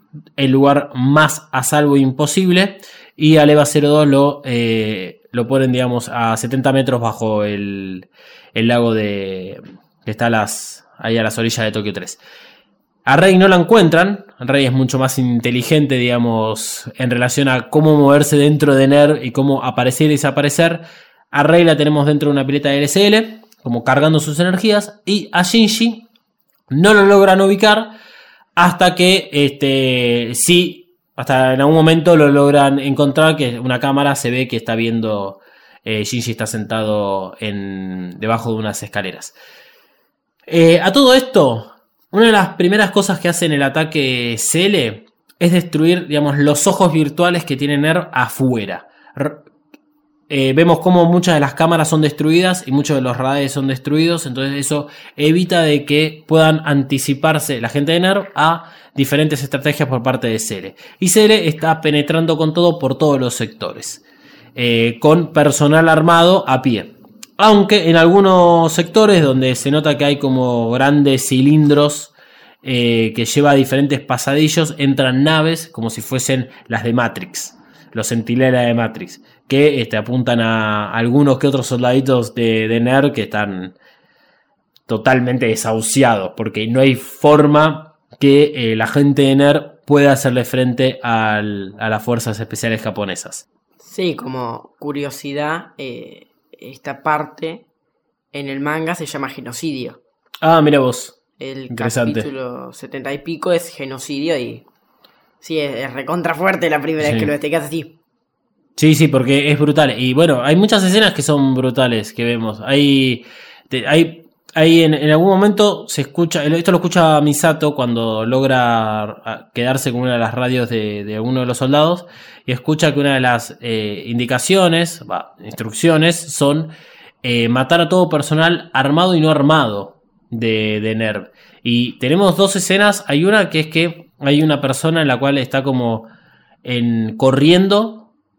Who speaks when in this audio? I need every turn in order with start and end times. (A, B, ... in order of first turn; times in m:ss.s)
0:00.4-0:12.2 A
0:13.1-0:26.1 A
0:26.7-0:28.0 A
0:28.6-0:39.4 A
0:40.5-0:49.4 A
0:50.3-1:04.0 A
1:04.6-1:23.7 A
1:24.9-1:33.4 A
1:33.8-1:37.7 B
1:38.3-1:40.0 B
1:40.4-1:41.2 A
1:41.4-1:44.6 B
1:41.7-1:42.3 A
1:45.4-1:48.0 B
1:47.0-1:47.3 A
1:48.8-2:16.1 A
2:16.6-2:18.1 A